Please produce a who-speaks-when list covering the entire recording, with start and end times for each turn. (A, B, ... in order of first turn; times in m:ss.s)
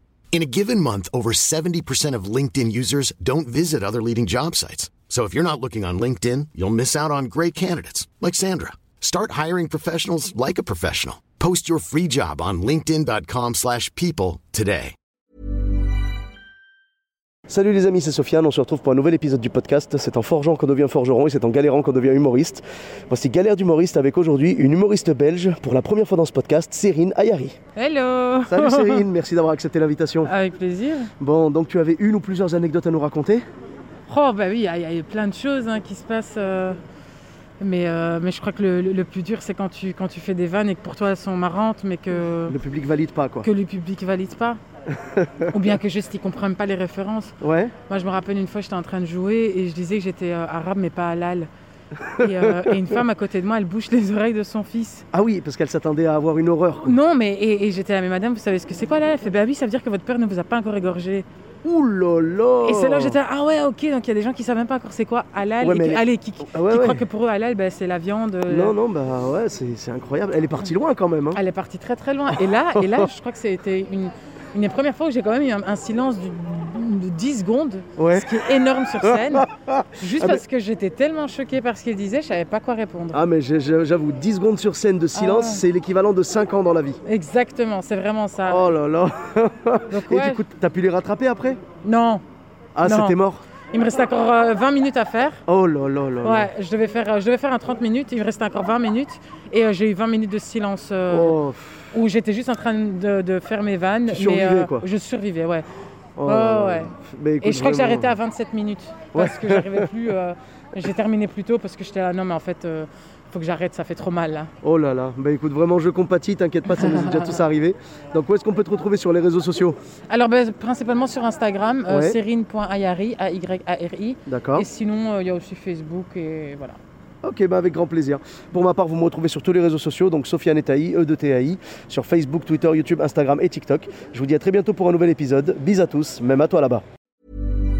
0:00.3-0:14.9 A
0:17.5-0:27.6 B
0:27.8-0:29.0 C
0:28.5-0:30.3 B
0:30.2-0:31.1 C
0:31.2-0:33.4 B
0:34.1-0:36.8 C
0:37.6-0:42.6 C
0:42.5-0:43.5 B
0:43.4-0:44.6 C
0:45.1-0:45.5 B
0:45.5-0:47.3 C
0:47.4-0:47.7 B
0:47.9-0:51.5 C
0:52.2-0:55.0 C
0:52.2-0:52.6 B
0:55.1-0:57.0 B
0:56.8-1:01.2 C
1:01.6-1:03.2 B
1:02.6-1:08.7 C
1:05.6-1:07.0 B
1:08.5-1:11.4 B
1:11.3-1:23.2 C
1:12.7-1:13.1 B
1:18.0-1:18.3 B
1:19.0-1:20.4 B
1:23.1-1:27.0 B
1:25.1-1:25.6 C
1:27.0-1:28.6 C
1:28.5-1:31.6 B
1:29.9-1:30.4 C
1:31.8-1:32.2 C
1:32.8-1:33.4 B
1:32.8-1:33.2 C
1:33.7-1:35.4 C
1:35.5-1:36.5 B
1:36.2-1:41.4 C
1:41.1-1:41.8 B
1:41.9-1:45.6 C
1:44.1-1:44.9 B
1:46.2-1:48.1 B
1:46.2-1:54.5 C
1:49.1-1:49.9 B
1:54.6-1:59.8 B
1:56.7-1:57.4 C
2:00.1-2:06.8 C
2:01.9-2:02.2 B
2:04.2-2:04.6 B
2:07.2-2:16.8 B